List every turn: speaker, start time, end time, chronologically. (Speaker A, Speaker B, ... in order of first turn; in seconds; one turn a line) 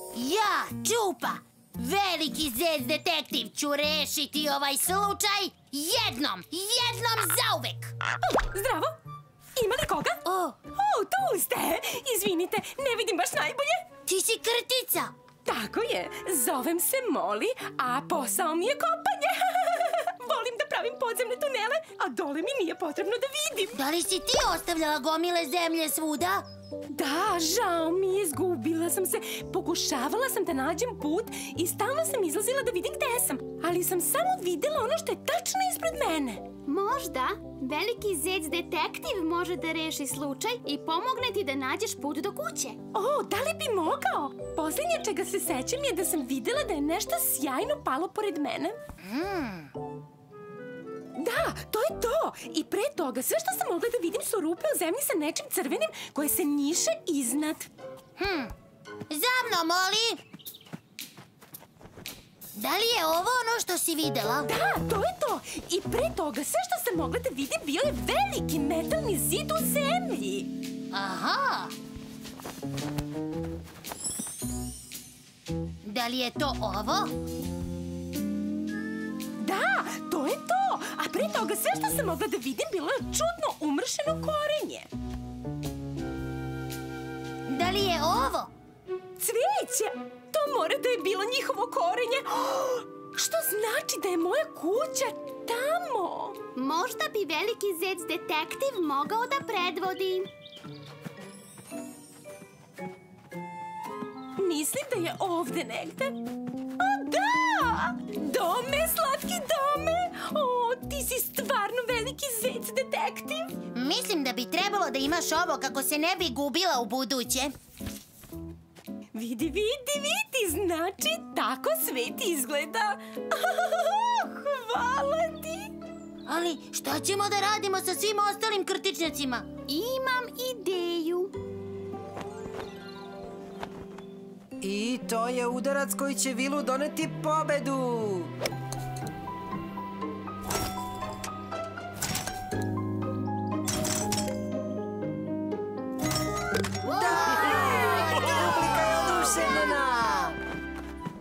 Speaker A: 0.1-7.9
Speaker B: 8.5-8.9
Speaker B: 9.6-10.2
Speaker A: 10.2-10.6
Speaker B: 10.7-13.9
Speaker A: 14.1-15.1
Speaker B: 15.5-23.8
Speaker A: 23.7-26.4
Speaker B: 26.9-36.4
Speaker C: 36.7-42.8
Speaker B: 42.9-48.8
Speaker A: 49.0-49.7
Speaker B: 51.2-57.7
Speaker A: 58.2-58.5
Speaker A: 59.1-60.2
Speaker A: 62.5-64.5
Speaker B: 64.5-70.5
Speaker A: 70.9-71.7
Speaker A: 75.8-77.1
Speaker B: 79.4-84.9
Speaker A: 87.5-88.5
Speaker B: 89.2-96.4
Speaker C: 96.6-100.3
Speaker B: 104.4-106.2
Speaker B: 106.8-113.5
Speaker A: 113.7-117.5
Speaker B: 119.1-125.7
Speaker A: 126.3-129.5
Speaker C: 129.7-131.3
Speaker D: 134.6-138.3
Speaker D: 146.9-150.4
Speaker A: 147.1-148.4